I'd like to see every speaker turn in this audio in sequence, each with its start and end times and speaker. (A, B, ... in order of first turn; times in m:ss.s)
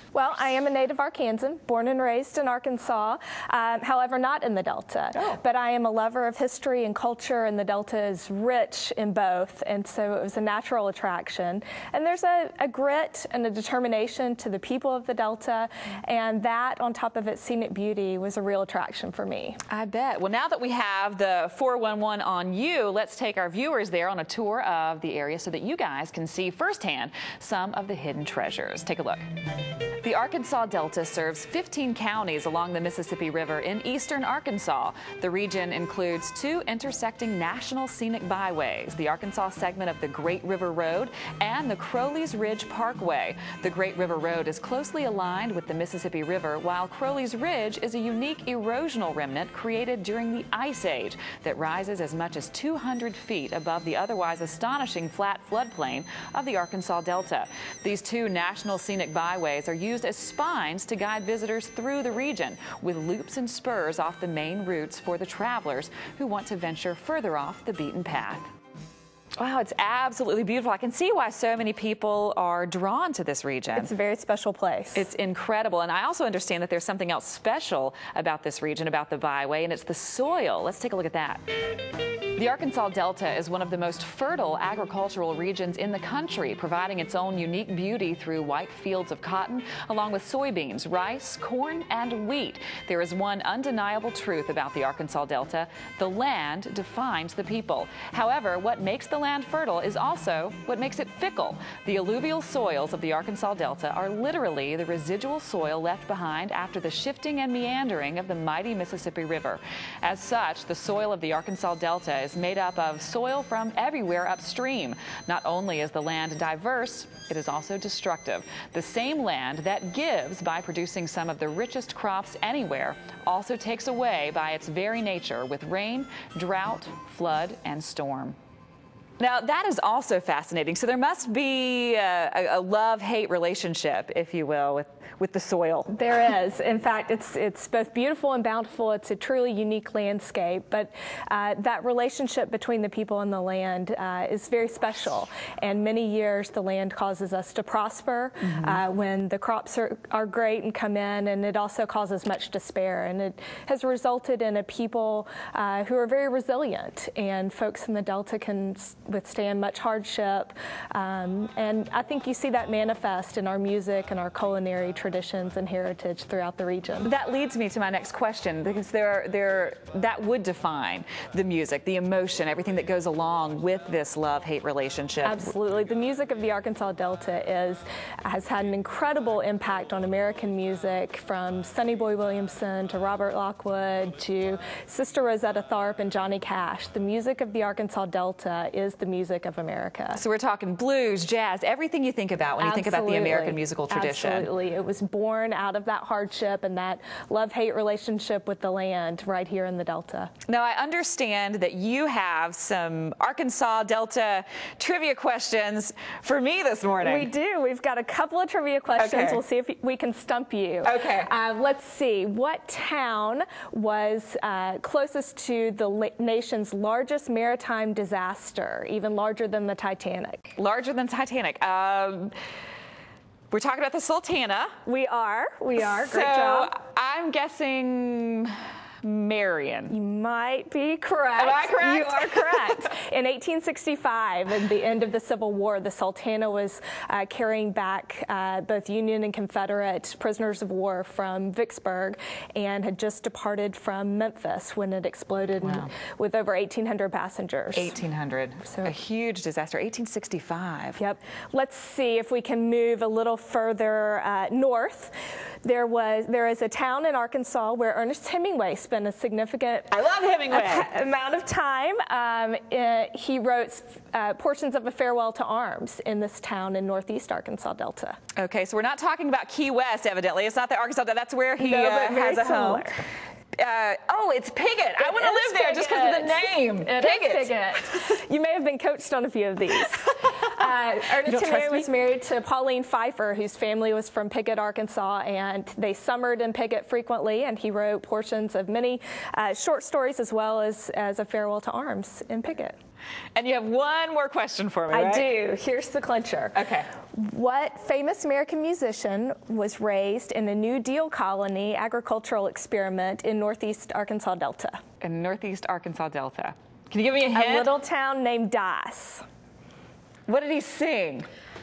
0:00.1-0:19.6 A
0:19.7-0:29.2 B
0:30.0-1:08.5 B
1:09.4-1:13.9 B
1:13.8-1:15.1 A
1:15.0-1:21.4 B
1:22.4-2:08.4 B
2:09.2-2:16.0 B
2:15.9-2:47.1 A
2:47.0-2:55.5 B
2:55.2-3:10.2 A
3:10.1-3:14.5 B
3:12.6-3:20.3 A
3:20.5-3:27.3 B
3:27.0-3:40.5 A
3:29.0-3:29.4 B
3:30.8-3:31.3 B
3:40.6-3:42.3 B
3:43.5-3:44.8 B
3:44.8-3:46.7 A
3:45.8-3:49.9 B
3:49.9-4:08.0 A
3:51.4-3:52.9 B
4:05.6-4:05.9 B
4:07.7-4:11.0 B
4:08.6-4:08.9 A
4:11.0-4:19.9 A
4:19.9-4:20.9 B
4:20.5-4:28.2 A
4:28.4-4:33.0 B
4:31.6-4:33.0 A
4:33.5-4:38.0 B
4:35.0-4:52.8 A
4:41.2-4:41.9 B
4:53.4-4:55.3 B
4:54.9-4:56.6 A
4:56.6-4:56.9 B
4:57.1-5:04.8 A
5:05.0-5:07.8 B
5:07.3-5:09.2 A
5:10.3-5:11.3 B